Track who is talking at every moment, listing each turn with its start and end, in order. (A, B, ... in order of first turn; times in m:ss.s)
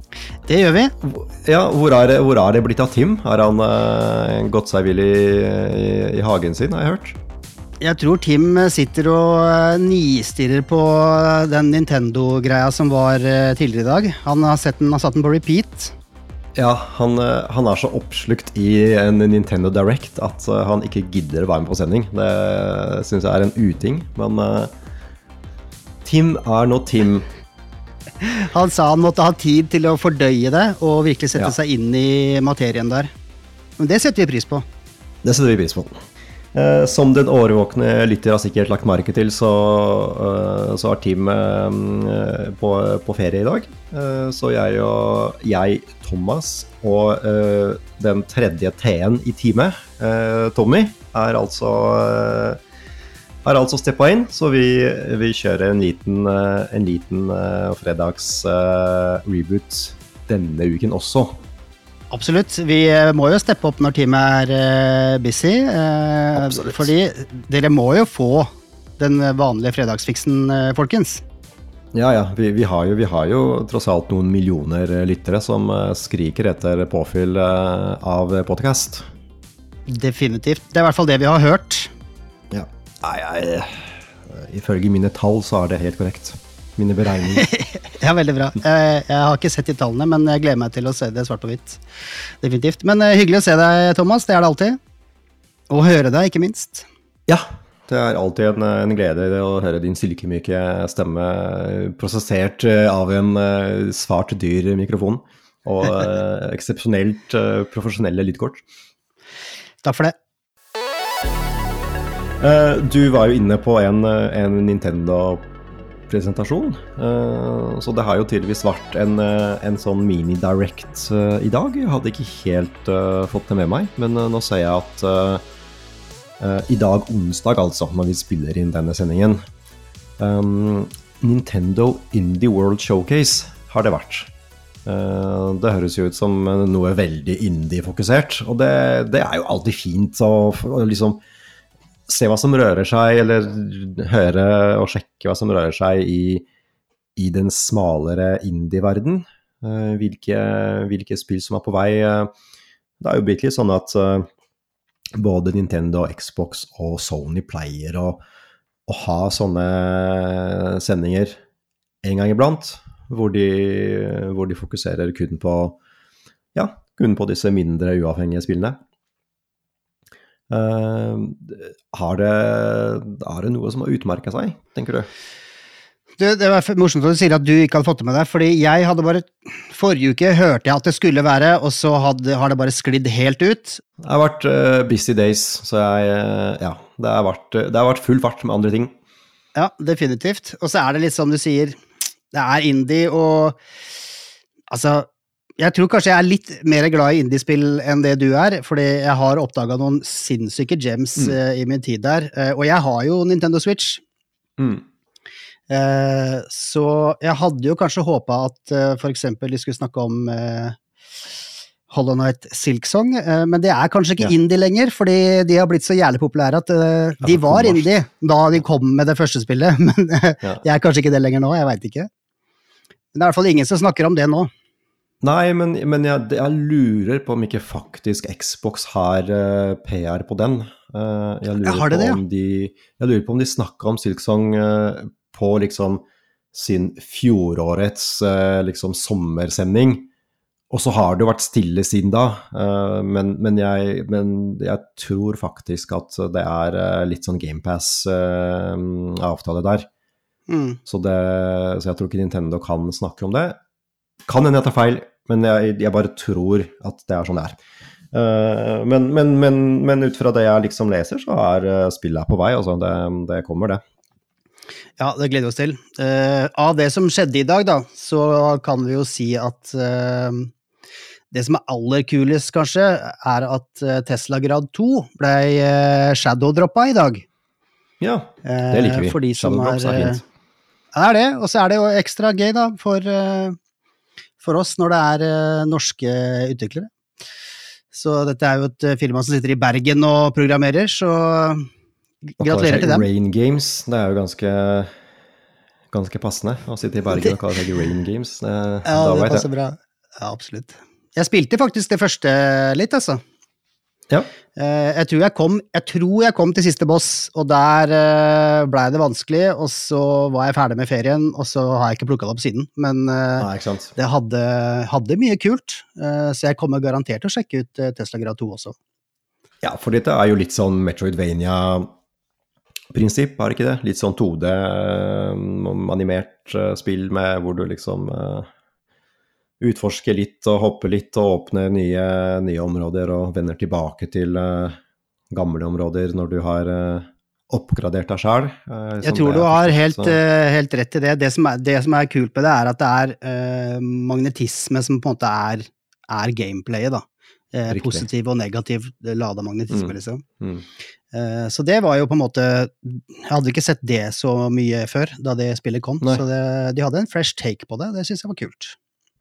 0:00.4-0:00.9 A
0:01.0-0:07.2 B
0:07.8-0:15.9 A
0:16.6-0:24.7 B
0:26.0-0:27.3 B
0:28.3-0:33.1 A
0:33.8-0:34.6 A
0:35.2-0:36.0 B
0:36.5-0:52.6 B
0:53.4-1:01.4 B
1:02.1-1:11.2 A
1:06.4-1:06.9 B
1:11.9-1:19.1 B
1:19.9-1:21.9 A
1:22.5-1:27.5 B
1:27.3-1:34.8 A
1:35.7-1:36.9 A
1:37.3-1:48.6 B
1:49.8-1:50.2 A
1:52.4-1:55.5 B
1:56.1-2:05.4 B
2:06.4-2:09.4 B
2:10.2-2:14.3 B
2:14.8-2:21.2 B
2:22.1-2:26.5 B
2:27.2-2:32.3 B
2:33.0-2:34.3 B
2:35.2-2:38.2 B
2:38.9-2:41.4 B
2:42.0-2:45.8 B
2:46.5-2:48.8 B
2:50.5-2:55.1 B
2:56.2-3:03.8 A
3:04.0-3:08.9 B
3:09.6-3:11.8 A
3:12.3-3:13.6 A
3:14.7-3:15.1 A
3:15.6-3:24.0 A
3:24.6-3:24.8 B
3:25.7-3:30.8 A
3:31.9-3:42.1 A
3:37.2-3:37.9 B
3:43.1-3:44.5 A
3:45.2-4:00.1 B
3:51.6-3:52.2 A
4:00.7-4:09.9 B
4:10.5-4:10.8 A
4:10.9-4:13.6 B
4:14.3-4:17.6 B
4:18.1-4:23.8 B
4:25.0-4:30.5 A
4:31.3-4:37.2 A
4:38.0-4:40.2 B
4:38.4-4:40.2 A
4:40.9-4:43.6 A
4:44.4-4:46.9 A
4:47.9-4:51.7 A
4:52.3-4:53.0 A
4:52.4-4:54.9 B
4:55.9-4:59.5 B
4:58.9-5:03.2 A
5:04.6-5:18.8 A
5:13.4-5:14.0 B
5:19.6-5:21.9 B
5:22.9-5:28.5 B
5:29.6-5:34.8 B
5:35.3-5:40.2 B
5:39.0-5:50.2 A
5:47.7-5:48.1 B
5:49.7-5:50.6 B
5:51.1-5:58.8 A